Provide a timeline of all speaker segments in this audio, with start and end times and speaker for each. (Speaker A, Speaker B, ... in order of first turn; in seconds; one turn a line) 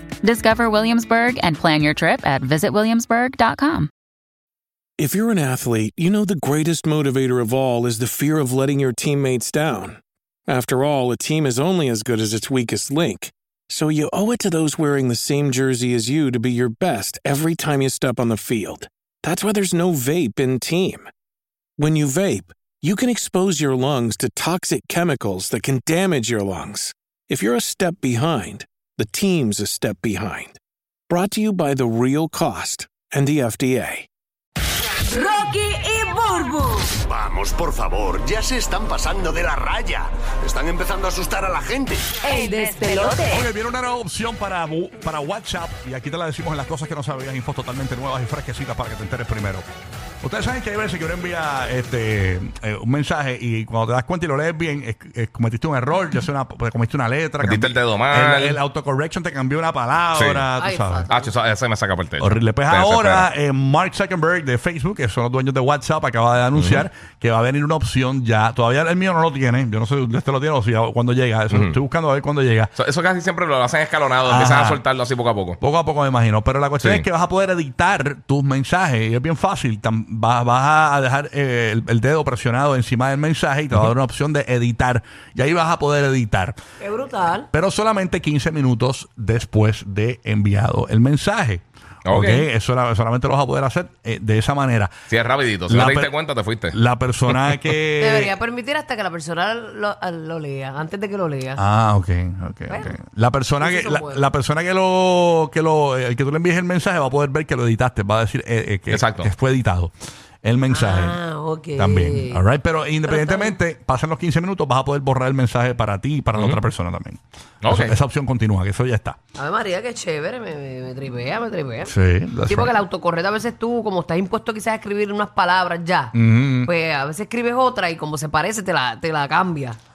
Speaker A: 0.2-3.9
Speaker B: 5.0-21.1
Speaker B: 21.8-30.6
Speaker B: 31.1-34.1
Speaker C: 35.2-36.9
Speaker D: 37.0-42.1
Speaker C: 42.2-43.4
Speaker E: 43.3-49.6
Speaker E: 50.2-61.1
Speaker F: 57.4-58.6
Speaker F: 60.1-60.5
Speaker G: 60.6-61.3
Speaker F: 61.1-63.3
Speaker E: 62.2-72.7
Speaker F: 66.5-66.8
Speaker F: 71.5-71.8
Speaker F: 72.8-75.6
Speaker E: 74.2-74.8
Speaker E: 75.6-86.5
Speaker F: 76.8-77.0
Speaker G: 86.8-87.5
Speaker E: 87.5-94.9
Speaker F: 92.0-92.5
Speaker F: 95.1-96.8
Speaker E: 95.7-96.1
Speaker E: 96.7-98.3
Speaker G: 98.0-101.6
Speaker E: 101.6-109.9
Speaker G: 102.7-103.0
Speaker G: 103.6-104.3
Speaker F: 108.9-109.3
Speaker E: 110.4-111.2
Speaker G: 110.7-112.4
Speaker E: 111.7-119.2
Speaker G: 113.0-113.6
Speaker F: 116.3-116.6
Speaker F: 117.6-118.0
Speaker G: 119.3-121.9
Speaker E: 121.8-122.7
Speaker G: 122.5-126.1
Speaker E: 126.1-126.7
Speaker G: 126.6-129.8